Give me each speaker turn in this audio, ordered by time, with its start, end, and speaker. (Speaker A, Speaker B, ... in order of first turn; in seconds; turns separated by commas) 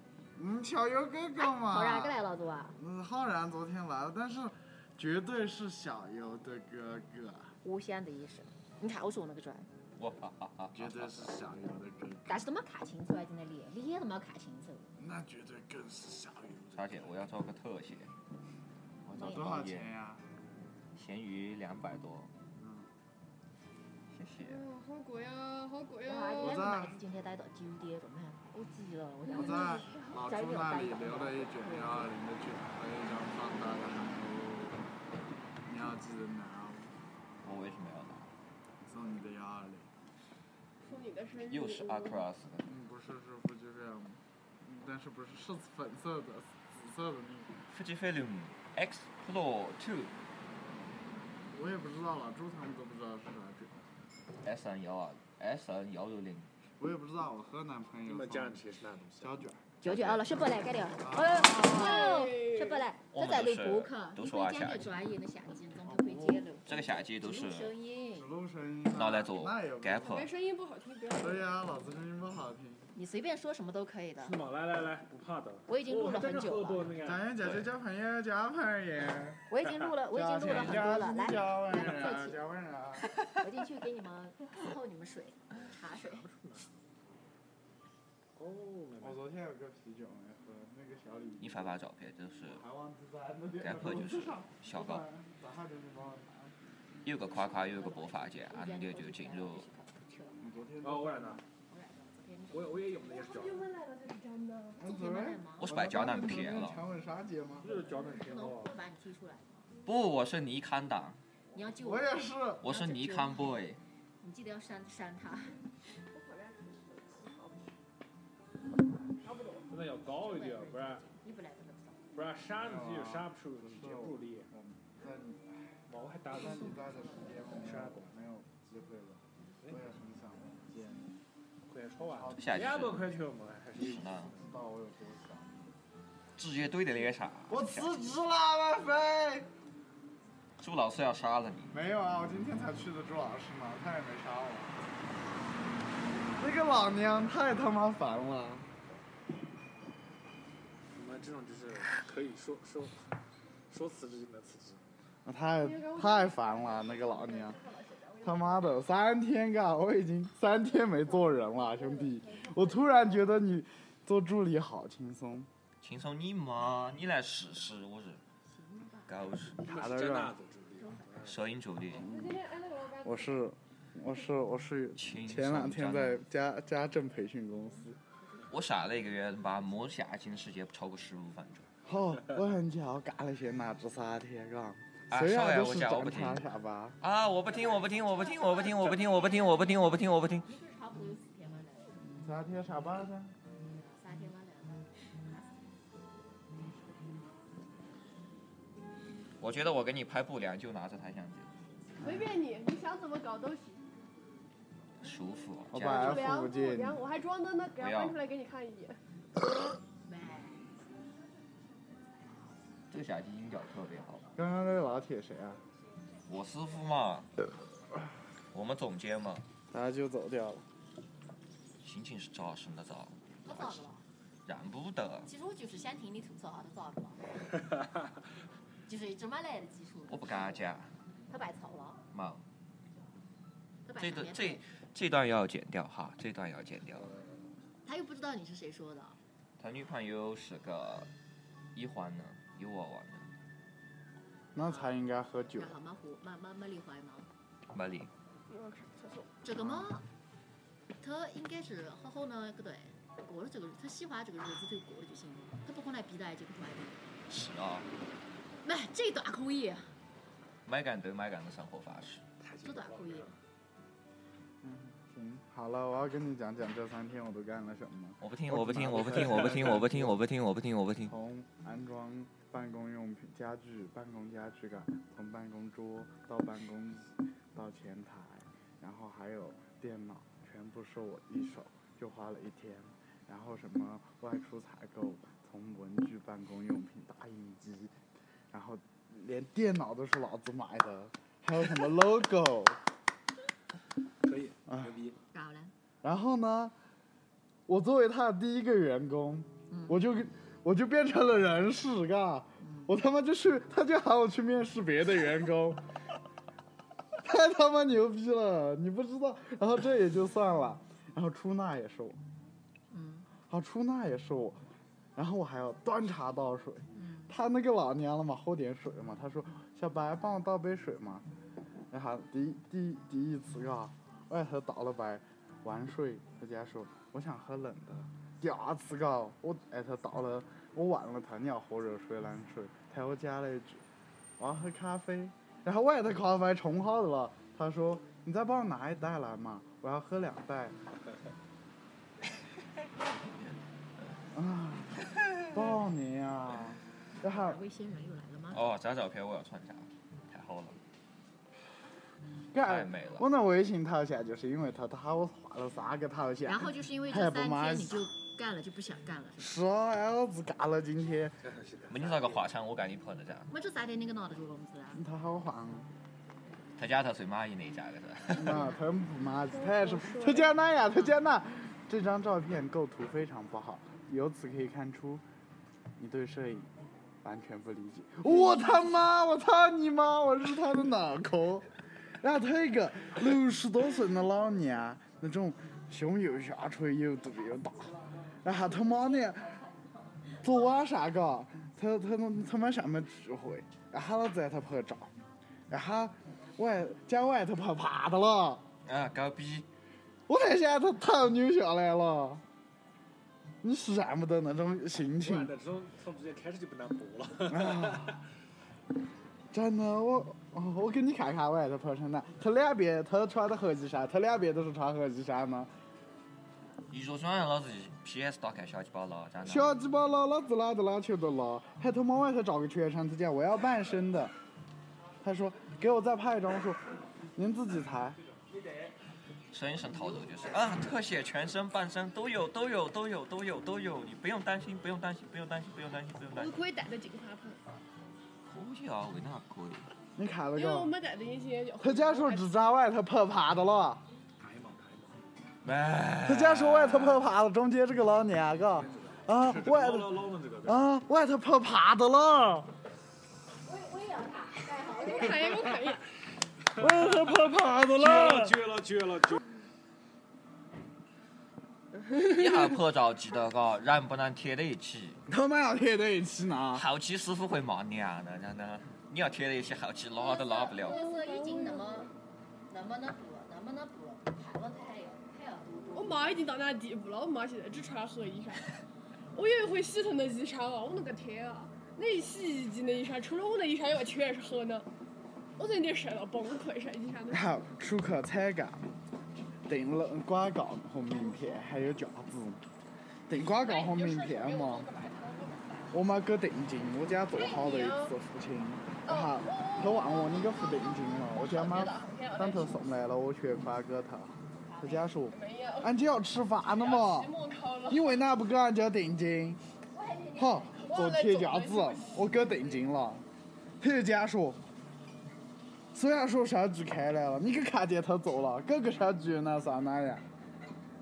Speaker A: 0.4-2.2, Speaker B: 1.6-2.8, Speaker A: 2.8-7.5, Speaker B: 7.6-9.7, Speaker C: 10.0-11.3, Speaker A: 10.8-12.4, Speaker B: 12.3-14.9, Speaker A: 15.0-17.1, Speaker C: 16.8-18.1, Speaker C: 19.1-19.9, Speaker B: 19.2-19.5, Speaker A: 19.2-20.2, Speaker C: 20.9-22.3, Speaker A: 22.6-22.9, Speaker C: 24.1-24.6, Speaker D: 24.4-26.7, Speaker B: 26.1-32.1, Speaker A: 26.4-27.0, Speaker A: 29.3-34.8, Speaker A: 35.7-36.9, Speaker C: 37.4-38.3, Speaker A: 38.9-39.9, Speaker D: 40.8-42.2, Speaker C: 41.5-42.6, Speaker A: 42.6-47.6, Speaker C: 47.7-50.1, Speaker A: 51.5-53.8, Speaker C: 54.4-56.5, Speaker A: 56.8-58.6, Speaker E: 58.1-59.4, Speaker A: 59.2-59.7, Speaker B: 59.8-68.3, Speaker C: 59.9-60.3, Speaker A: 61.0-62.1, Speaker D: 61.6-62.8, Speaker C: 63.1-64.9, Speaker A: 65.9-66.5, Speaker C: 66.7-67.7, Speaker A: 68.1-70.2, Speaker C: 68.9-70.3, Speaker D: 70.0-71.6, Speaker A: 71.1-72.9, Speaker B: 73.0-74.4, Speaker E: 74.2-77.3, Speaker B: 75.7-77.0, Speaker A: 77.0-79.5, Speaker B: 79.5-82.4, Speaker A: 80.1-83.1, Speaker C: 80.5-80.9, Speaker B: 83.0-86.3, Speaker E: 86.1-86.7, Speaker E: 88.4-89.2, Speaker A: 89.0-91.7, Speaker C: 91.4-92.6, Speaker A: 92.5-96.5, Speaker C: 93.6-95.0, Speaker C: 97.0-99.7, Speaker B: 97.3-100.4, Speaker A: 100.4-101.4, Speaker E: 100.8-101.4, Speaker B: 101.7-103.0, Speaker E: 102.5-103.7, Speaker D: 103.1-104.9, Speaker A: 104.8-107.9, Speaker B: 104.8-105.7, Speaker C: 105.6-106.8, Speaker E: 107.6-108.8, Speaker B: 108.0-109.7, Speaker C: 109.9-111.2, Speaker B: 111.5-113.6, Speaker A: 111.8-112.7, Speaker C: 112.6-113.8, Speaker B: 114.2-115.6, Speaker D: 116.1-117.8, Speaker D: 119.2-119.7, Speaker E: 119.7-121.0, Speaker B: 120.0-122.1, Speaker E: 122.2-124.5, Speaker A: 122.5-125.7, Speaker E: 125.9-126.9, Speaker A: 126.3-131.2, Speaker E: 127.5-128.1, Speaker E: 131.7-134.4, Speaker A: 132.1-132.9, Speaker C: 132.4-133.1, Speaker C: 133.8-134.3, Speaker A: 134.2-135.7, Speaker C: 136.4-137.9, Speaker A: 137.5-139.5, Speaker C: 140.6-141.8, Speaker A: 141.7-144.8, Speaker A: 146.4-148.7, Speaker E: 150.9-153.1, Speaker E: 153.7-154.8, Speaker A: 155.2-157.6, Speaker D: 155.6-158.8, Speaker A: 158.2-165.5, Speaker D: 161.1-163.3, Speaker C: 165.8-168.2, Speaker B: 168.4-169.2, Speaker C: 169.1-169.6, Speaker A: 169.6-170.3, Speaker E: 169.7-171.4, Speaker B: 170.8-171.1, Speaker C: 171.2-172.1, Speaker A: 171.9-172.4, Speaker D: 172.1-173.4, Speaker A: 173.0-178.0, Speaker C: 175.0-176.2, Speaker C: 178.5-181.7, Speaker A: 181.8-187.0, Speaker C: 185.1-186.4, Speaker C: 187.0-190.5, Speaker B: 187.5-192.0, Speaker A: 192.1-193.3, Speaker B: 193.7-195.5, Speaker C: 199.4-201.6, Speaker A: 202.0-202.3, Speaker D: 202.0-203.8, Speaker C: 205.0-206.3, Speaker A: 205.7-207.0, Speaker D: 205.8-209.0, Speaker C: 207.8-208.2, Speaker B: 210.1-210.7, Speaker C: 212.9-214.3, Speaker A: 214.4-215.6, Speaker C: 216.3-217.3, Speaker C: 218.5-219.5, Speaker A: 219.7-220.7, Speaker C: 221.8-223.8, Speaker B: 223.4-224.0, Speaker C: 224.5-225.3, Speaker B: 225.3-227.2, Speaker B: 228.9-230.7, Speaker C: 230.1-230.9, Speaker B: 231.3-232.0, Speaker C: 232.1-232.4, Speaker B: 233.9-234.6, Speaker C: 234.0-237.1, Speaker B: 237.8-239.2, Speaker C: 239.6-241.1, Speaker C: 241.7-243.3, Speaker A: 244.6-245.8, Speaker B: 244.6-244.9, Speaker B: 245.5-247.3, Speaker C: 247.7-248.1, Speaker D: 248.5-249.3, Speaker B: 249.4-250.1, Speaker A: 249.6-249.9, Speaker B: 251.0-257.1, Speaker C: 257.3-257.9, Speaker B: 258.6-259.9, Speaker C: 260.6-262.2, Speaker E: 262.4-263.4, Speaker B: 262.6-263.3, Speaker A: 264.6-270.1, Speaker C: 268.2-271.1, Speaker E: 269.4-269.7, Speaker A: 271.1-288.0, Speaker A: 288.5-292.8, Speaker E: 294.2-295.2, Speaker A: 294.7-294.9, Speaker B: 295.3-295.7, Speaker A: 296.0-296.7, Speaker A: 297.7-305.8, Speaker B: 299.7-300.0, Speaker B: 302.6-302.9, Speaker A: 307.2-312.2, Speaker B: 312.9-313.3, Speaker A: 313.4-314.6, Speaker A: 315.2-321.3, Speaker B: 316.9-317.4, Speaker A: 321.9-333.8, Speaker A: 334.4-340.8, Speaker C: 343.0-343.6, Speaker A: 344.3-347.6, Speaker B: 347.2-348.6, Speaker C: 348.5-350.8, Speaker A: 352.5-358.1, Speaker C: 352.6-353.3, Speaker B: 356.4-359.5, Speaker A: 359.4-361.4, Speaker E: 361.4-362.5, Speaker C: 361.9-363.5, Speaker B: 363.5-365.0, Speaker A: 364.9-365.9, Speaker C: 366.8-368.7, Speaker A: 368.3-375.2, Speaker B: 368.5-368.8, Speaker D: 369.5-370.5, Speaker A: 376.0-376.7, Speaker A: 377.2-381.7, Speaker A: 382.2-389.6, Speaker B: 388.5-390.4, Speaker A: 390.4-395.1, Speaker A: 395.7-398.6, Speaker C: 398.9-399.7, Speaker A: 400.3-402.4, Speaker A: 403.6-405.5, Speaker E: 405.2-408.2, Speaker A: 407.5-408.1, Speaker A: 409.5-415.7, Speaker C: 416.9-419.7, Speaker A: 419.4-424.4, Speaker A: 425.2-428.2, Speaker E: 428.3-428.9, Speaker C: 429.5-436.6, Speaker D: 436.3-437.6, Speaker C: 438.4-439.9, Speaker A: 440.2-440.9, Speaker D: 440.6-442.7, Speaker A: 441.8-444.0, Speaker E: 444.4-445.2, Speaker C: 445.6-447.3, Speaker A: 446.2-452.7, Speaker E: 448.8-450.9, Speaker B: 453.6-455.8, Speaker D: 454.9-456.0, Speaker E: 456.8-457.3, Speaker A: 456.8-458.6, Speaker E: 457.9-459.4, Speaker C: 462.2-465.2, Speaker A: 465.3-466.9, Speaker C: 466.7-471.1, Speaker B: 470.2-472.1, Speaker D: 470.8-472.1, Speaker B: 472.7-476.4, Speaker D: 475.9-478.8, Speaker D: 479.3-484.9, Speaker D: 485.6-487.5, Speaker A: 487.3-488.9, Speaker A: 489.7-492.6, Speaker A: 493.3-494.9, Speaker D: 493.4-496.0, Speaker A: 495.9-507.3, Speaker D: 497.3-498.1, Speaker D: 499.1-502.8, Speaker B: 504.6-505.1, Speaker D: 505.2-505.9, Speaker D: 506.7-508.2, Speaker A: 507.9-509.6, Speaker B: 509.9-511.1, Speaker A: 510.4-513.2, Speaker D: 510.8-512.9, Speaker A: 513.8-514.6, Speaker A: 515.9-520.2